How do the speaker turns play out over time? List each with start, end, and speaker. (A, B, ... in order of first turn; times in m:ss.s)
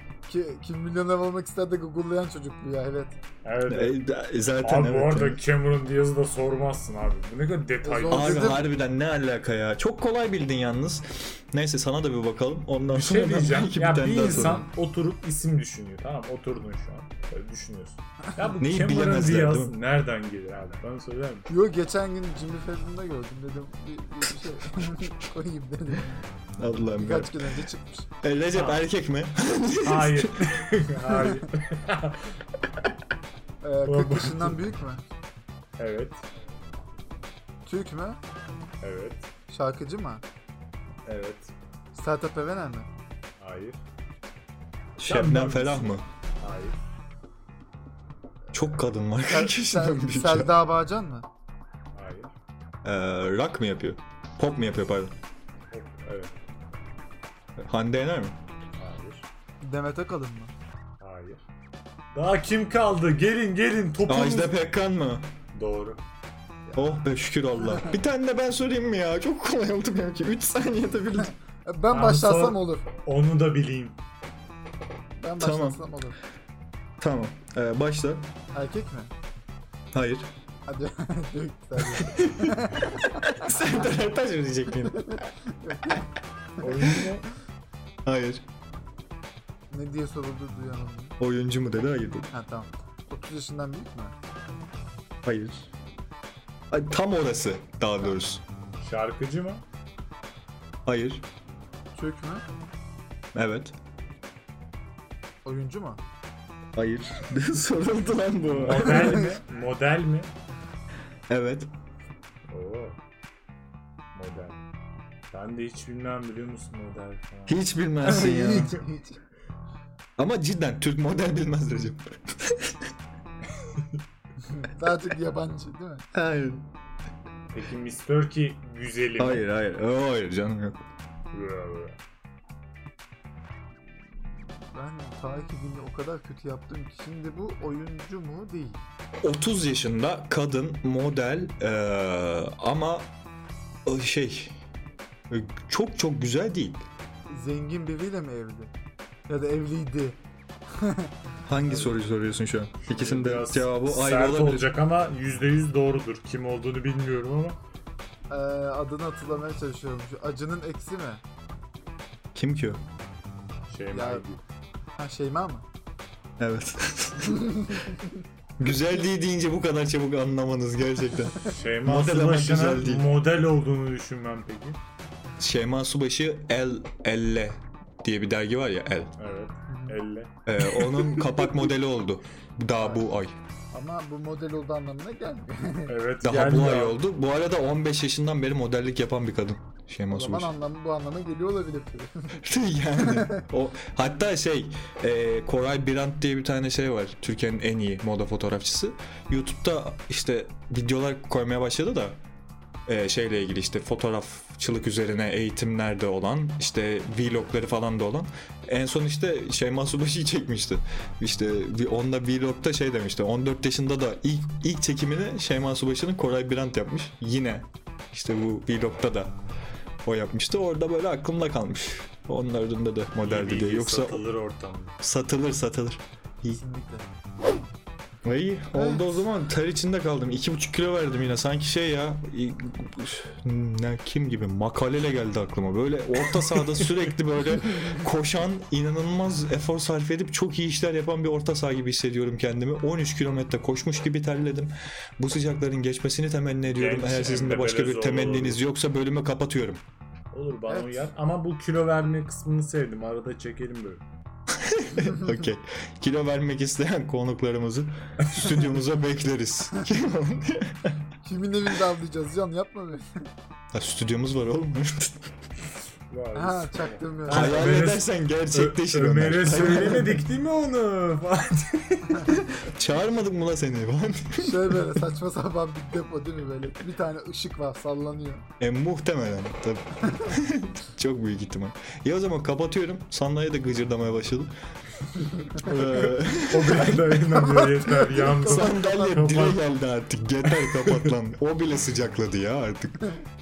0:00.3-0:03.2 A
0:03.4-0:04.0 B
0:03.7-0:05.4 C
0:04.6-0:08.6 B
0:07.8-0:08.6 A
0:08.1-0:14.7 C
0:12.9-0:21.5 B
0:18.6-0:19.7 C
0:21.5-0:26.2 A
0:26.6-0:27.4 C
0:26.9-0:28.1 A
0:28.2-0:30.4 C
0:28.5-0:28.8 B
0:29.8-0:32.3 B
0:31.1-0:31.4 A
0:33.6-0:35.0 A
0:33.8-0:34.6 B
0:35.8-0:36.2 B
0:37.6-0:38.2 A
0:38.8-0:39.3 B
0:39.5-0:40.2 A
0:41.0-0:41.5 B
0:41.9-0:42.9 A
0:43.4-0:43.8 B
0:45.0-0:46.0 C
0:45.0-0:46.8 B
0:48.5-0:50.5 C
0:49.2-0:51.3 A
0:51.9-0:52.3 B
0:52.8-0:55.1 C
0:55.7-0:56.3 B
0:57.6-0:58.4 C
0:58.8-0:59.2 B
0:59.6-1:00.5 A
1:01.0-1:01.4 B
1:02.1-1:04.6 B
1:04.1-1:05.3 C
1:05.5-1:06.0 B
1:06.7-1:07.0 A
1:06.8-1:11.3 C
1:11.6-1:12.9 A
1:11.9-1:14.0 B
1:15.2-1:16.2 A
1:15.4-1:15.8 C
1:17.0-1:18.3 C
1:18.5-1:19.1 A
1:19.9-1:20.3 C
1:20.6-1:23.5 A
1:21.9-1:25.2 C
1:25.5-1:26.1 A
1:26.6-1:27.2 B
1:28.0-1:28.4 C
1:29.7-1:31.2 A
1:31.2-1:32.3 C
1:32.3-1:34.1 A
1:35.2-1:35.7 C
1:36.7-1:38.4 C
1:38.8-1:39.6 B
1:40.8-1:41.2 C
1:41.9-1:42.4 A
1:43.3-1:43.7 C
1:45.4-1:46.0 A
1:46.7-1:49.3 C
1:48.5-1:50.3 B
1:51.3-1:51.7 C
1:52.5-1:53.0 B
1:54.1-1:54.7 B
1:55.3-1:57.6 B
1:57.5-1:58.8 C
1:58.0-1:59.2 A
2:00.2-2:02.9 C
2:03.6-2:03.9 B
2:04.4-2:06.1 A
2:06.1-2:06.6 C
2:07.5-2:09.4 B
2:09.2-2:10.8 C
2:11.3-2:12.0 B
2:14.2-2:18.8 A
2:19.2-2:23.1 C
2:23.8-2:24.6 C
2:25.3-2:26.8 C
2:27.3-2:28.7 A
2:29.3-2:31.1 A
2:31.5-2:34.7 C
2:31.7-2:31.9 A
2:32.8-2:37.6 B
2:38.3-2:41.2 A
2:42.3-2:42.8 C
2:43.7-2:44.4 B
2:43.9-2:44.2 A
2:45.0-2:45.6 A
2:46.4-2:47.8 C
2:47.4-2:48.0 A
2:48.6-2:53.1 C
2:51.4-2:54.8 B
2:55.4-2:59.1 C
2:59.2-3:00.3 B
2:59.7-2:59.9 A
3:00.4-3:03.4 C
3:03.7-3:05.9 A
3:05.9-3:07.0 B
3:06.2-3:10.5 C
3:10.1-3:12.4 A
3:12.4-3:22.2 C
3:13.0-3:13.4 A
3:22.8-3:39.4 C
3:40.0-3:44.2 C
3:43.2-3:44.9 B
3:45.0-3:46.6 C
3:46.5-3:47.1 A
3:48.2-4:09.8 C
3:48.7-3:49.2 A
4:06.7-4:08.6 B
4:10.3-4:14.0 B
4:10.7-4:11.1 A
4:14.5-4:21.0 C
4:18.2-4:18.6 B
4:21.2-4:23.2 A
4:23.7-4:25.3 C
4:26.1-4:32.4 B
4:26.3-4:27.6 A
4:27.3-4:30.2 C
4:32.3-4:34.8 C
4:34.4-4:38.4 A
4:38.6-4:44.5 C
4:45.6-4:47.2 C
4:45.7-4:49.6 B
4:47.4-4:49.2 A
4:48.4-4:53.1 C
4:50.5-4:51.1 B